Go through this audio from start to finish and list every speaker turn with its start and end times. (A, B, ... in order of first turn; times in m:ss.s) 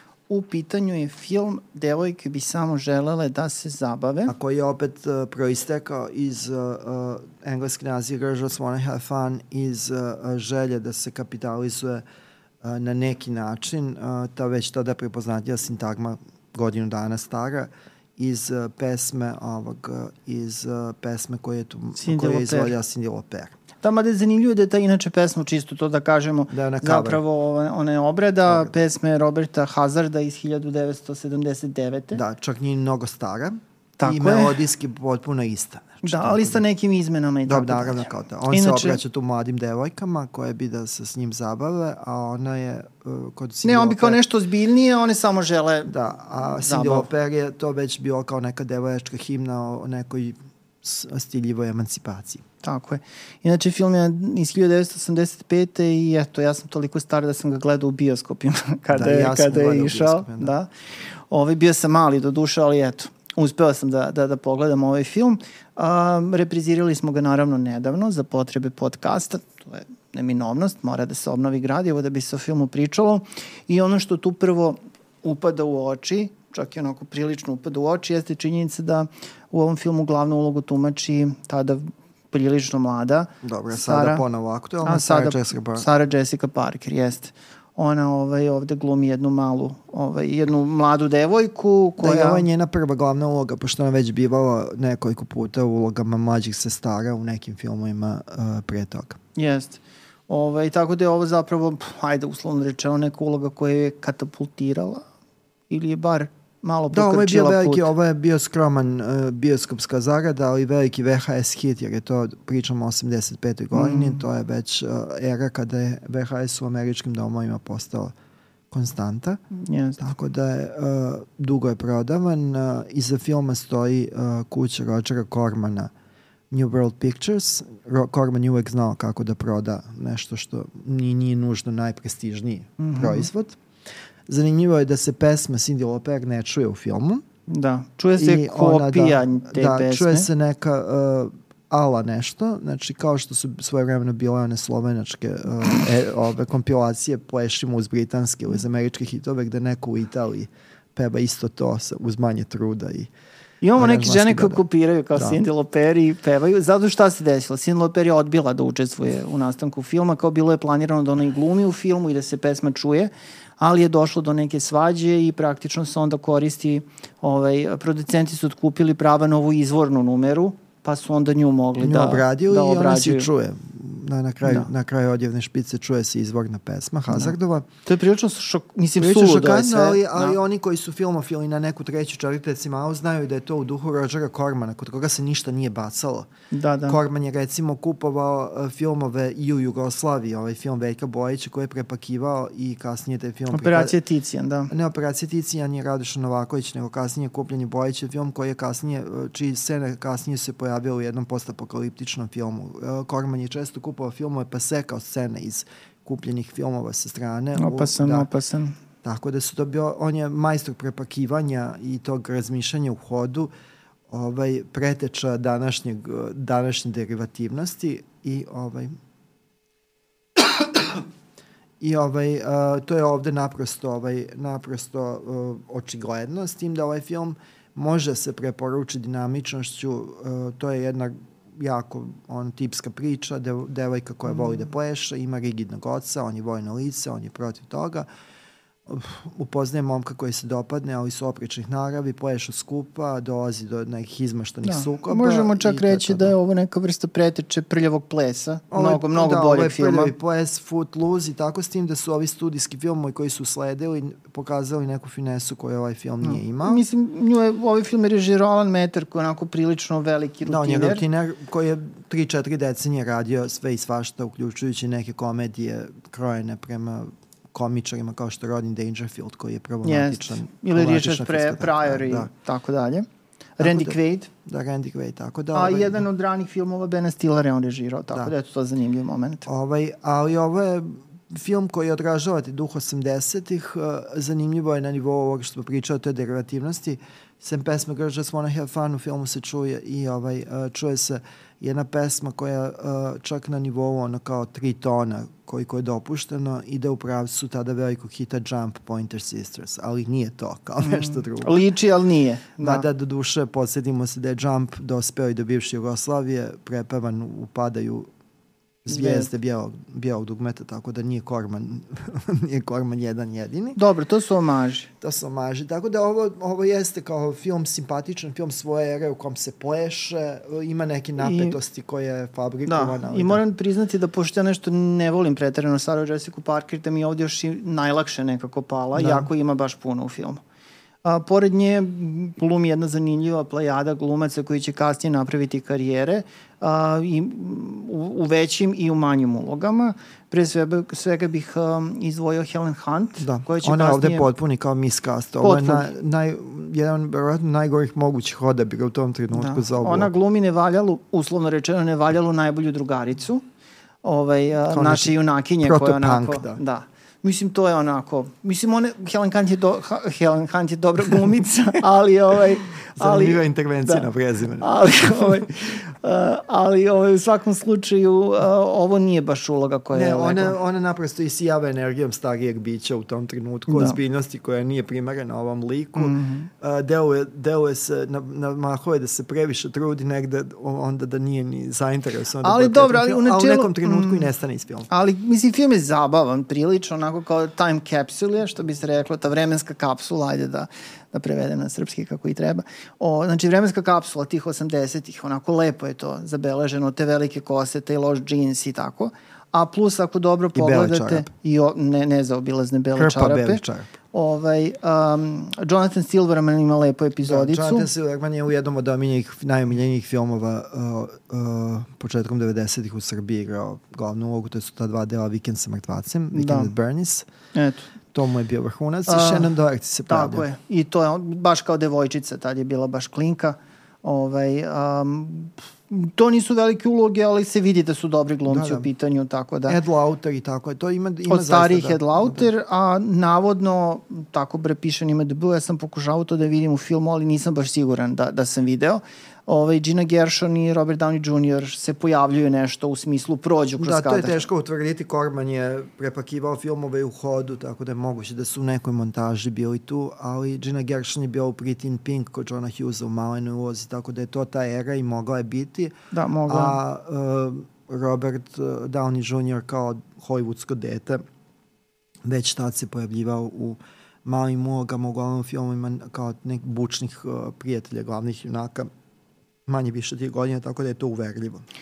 0:00.3-0:04.3 A
0:04.3-0:12.0 B
0:12.6-0:23.6 B
0:22.0-0:22.7 A
0:23.8-0:32.2 A
0:26.5-0:27.2 B
0:28.5-0:28.7 B
0:32.1-0:36.6 B
0:34.0-0:34.6 A
0:36.0-0:39.0 A
0:37.5-0:44.2 B
0:43.6-0:47.1 A
0:45.9-0:52.4 B
0:52.6-1:24.2 A
0:58.9-1:00.5 B
1:23.4-1:25.8 B
1:24.8-1:32.4 A
1:32.0-1:39.2 B
1:39.4-1:45.0 A
1:45.7-1:47.9 A
1:46.9-1:58.1 B
1:53.7-1:54.2 A
1:58.7-1:59.4 B
1:59.5-2:00.0 A
2:00.0-2:05.9 B
2:06.5-2:13.6 B
2:12.8-2:13.3 A
2:14.3-2:17.2 B
2:17.5-2:20.3 A
2:18.2-2:33.1 B
2:33.6-2:53.3 A
2:33.8-2:34.6 B
2:35.1-2:35.4 B
2:51.8-2:57.7 B
2:57.1-2:57.3 A
2:57.8-3:00.4 A
2:59.0-3:06.3 B
3:06.5-3:07.0 A
3:06.9-3:14.0 B
3:13.5-3:14.7 A
3:14.7-3:28.3 B
3:27.6-3:28.7 A
3:29.0-3:33.5 B
3:34.1-3:38.9 B
3:40.4-3:41.0 B
3:41.8-3:58.1 B
3:58.8-4:06.3 B
4:04.6-4:10.1 A
4:08.7-4:16.8 B
4:16.2-4:21.0 A
4:20.4-4:32.3 B
4:29.8-4:33.0 A
4:33.6-4:34.3 A
4:33.6-4:36.0 B
4:35.5-4:39.5 A
4:39.4-5:01.6 B
5:00.8-5:02.8 A
5:02.6-5:08.1 B
5:08.8-5:13.8 B
5:08.9-5:09.3 A
5:13.8-5:14.9 A
5:15.0-5:23.4 B
5:21.2-5:21.6 A
5:22.7-5:30.4 A
5:28.9-5:29.3 B
5:31.0-5:44.3 A
5:43.2-5:50.1 B
5:45.4-5:45.9 A
5:49.3-5:53.4 A
5:54.0-6:04.1 A
5:54.7-5:56.6 B
6:03.0-6:05.4 B
6:04.6-6:10.6 A
6:09.9-6:24.9 B
6:13.7-6:14.0 A
6:16.0-6:16.5 A
6:22.4-6:24.3 A
6:24.9-6:47.9 A
6:40.5-6:41.3 B
6:42.9-6:43.9 B
6:47.2-6:57.3 B
6:56.3-6:56.7 A
6:57.5-6:57.9 A
6:58.1-7:00.4 B
6:59.1-6:59.5 A
7:00.1-7:09.8 A
7:08.5-7:08.9 B
7:09.7-7:12.5 B
7:11.2-7:24.4 A
7:23.8-7:35.9 B
7:36.1-7:36.8 A
7:36.5-7:41.2 B
7:42.2-7:48.9 B
7:49.6-7:51.6 B